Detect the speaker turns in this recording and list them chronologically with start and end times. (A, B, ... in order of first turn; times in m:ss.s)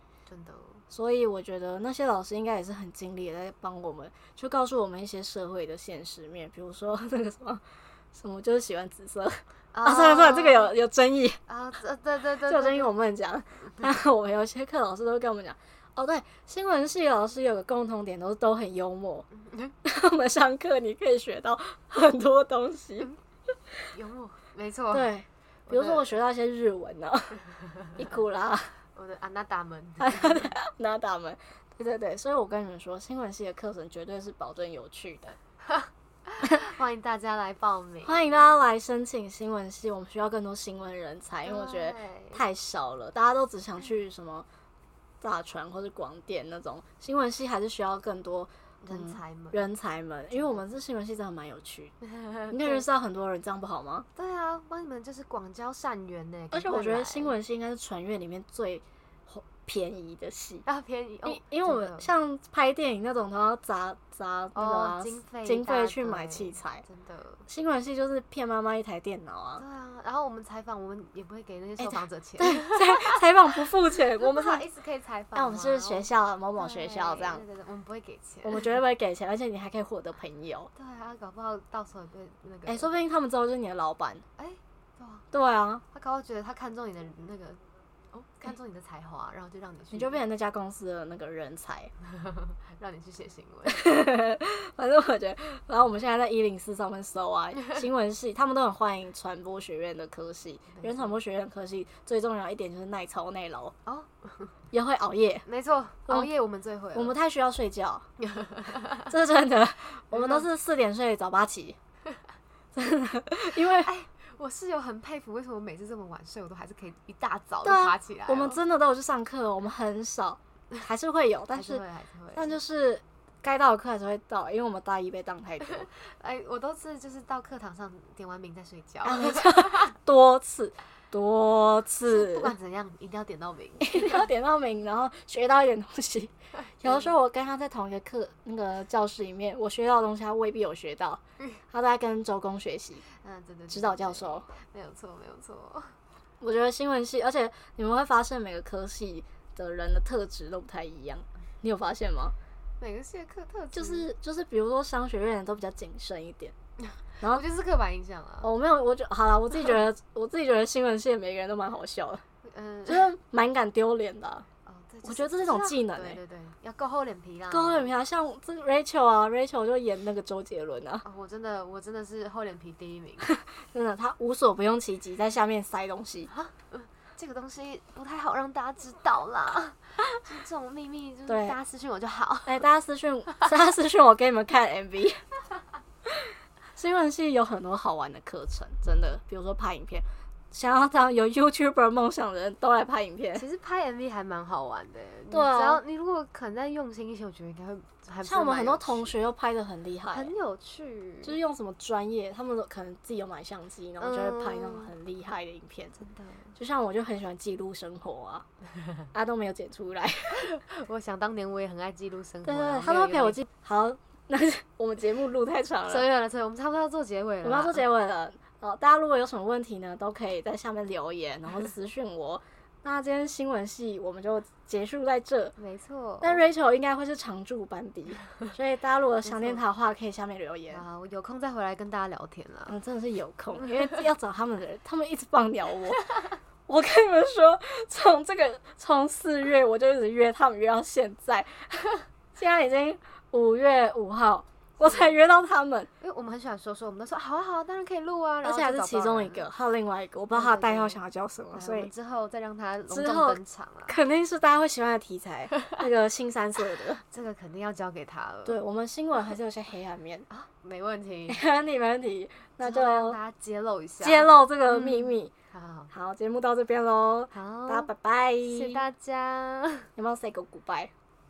0:00.2-0:00.8 A
0:00.9-0:11.4 B
0:09.7-0:10.7 A
0:11.5-0:12.9 A
0:12.4-0:19.3 B
0:19.3-0:19.8 A
0:19.8-0:23.1 B
0:23.9-0:25.1 A
0:24.9-0:27.4 B
0:25.7-0:26.2 A
0:28.0-0:28.7 B
0:28.9-0:30.5 A
0:30.0-0:35.4 B
0:35.7-0:38.4 A
0:38.0-0:44.4 B
0:41.4-0:42.4 A
0:45.2-0:51.9 B
0:48.8-0:49.6 A
0:50.3-0:50.7 A
0:52.0-0:52.8 A
0:52.5-0:54.1 B
0:54.2-0:57.4 A
0:56.5-1:00.6 B
1:00.6-1:02.1 A
1:01.2-1:06.8 B
1:04.5-1:07.4 A
1:07.5-1:09.6 B
1:09.6-1:18.7 A
1:11.8-1:14.6 B
1:15.3-1:17.4 B
1:18.4-1:20.7 B
1:20.7-1:22.9 A
1:22.7-1:24.2 B
1:24.4-1:25.3 A
1:25.3-1:25.8 B
1:25.9-1:30.2 A
1:29.9-1:31.9 B
1:32.0-1:33.8 A
1:33.6-1:43.7 B
1:40.8-1:41.1 A
1:43.8-1:44.5 A
1:44.7-1:45.4 B
1:45.4-1:47.2 A
1:46.9-1:48.1 B
1:48.2-1:49.1 A
1:49.0-1:51.8 B
1:50.1-1:50.5 A
1:52.7-1:53.9 B
1:53.8-1:58.6 A
1:57.6-2:01.8 B
2:01.5-2:02.6 A
2:02.3-2:05.9 B
2:05.8-2:09.9 A
2:09.0-2:12.5 B
2:12.1-2:14.2 A
2:13.8-2:23.0 B
2:16.8-2:17.1 A
2:23.1-2:25.9 A
2:23.7-2:24.5 B
2:26.4-2:32.3 B
2:32.8-2:34.1 A
2:33.7-2:36.5 B
2:36.9-2:38.5 A
2:38.4-2:42.2 B
2:42.4-2:43.1 A
2:42.9-2:44.4 B
2:44.6-2:47.9 A
2:45.0-2:46.2 B
2:47.5-2:51.0 B
2:51.0-2:53.3 A
2:53.2-2:56.3 B
2:56.3-3:02.6 A
3:01.3-3:01.6 B
3:02.4-3:05.2 B
3:06.1-3:13.4 B
3:13.3-3:19.2 A
3:15.3-3:15.8 B
3:18.2-3:20.3 B
3:20.1-3:21.4 A
3:21.2-3:26.0 B
3:24.0-3:24.9 A
3:26.0-3:26.5 A
3:26.6-3:28.4 B
3:29.1-3:30.4 B
3:30.3-3:33.4 A
3:32.4-3:36.1 B
3:35.9-3:37.8 A
3:37.4-3:45.5 B
3:45.6-3:46.4 A
3:46.2-3:50.8 B
3:49.2-3:49.6 A
3:50.7-3:52.8 A
3:52.7-4:05.9 B
3:53.5-3:54.0 A
4:04.8-4:05.1 A
4:06.0-4:09.5 A
4:08.4-4:11.9 B
4:10.3-4:11.0 A
4:11.5-4:14.0 A
4:12.9-4:17.0 B
4:17.0-4:18.6 A
4:18.4-4:20.3 B
4:20.3-4:21.4 A
4:21.3-4:23.2 B
4:22.6-4:25.9 A
4:24.0-4:25.3 B
4:25.9-4:28.8 B
4:27.3-4:27.9 A
4:28.4-4:29.9 A
4:30.0-4:30.9 B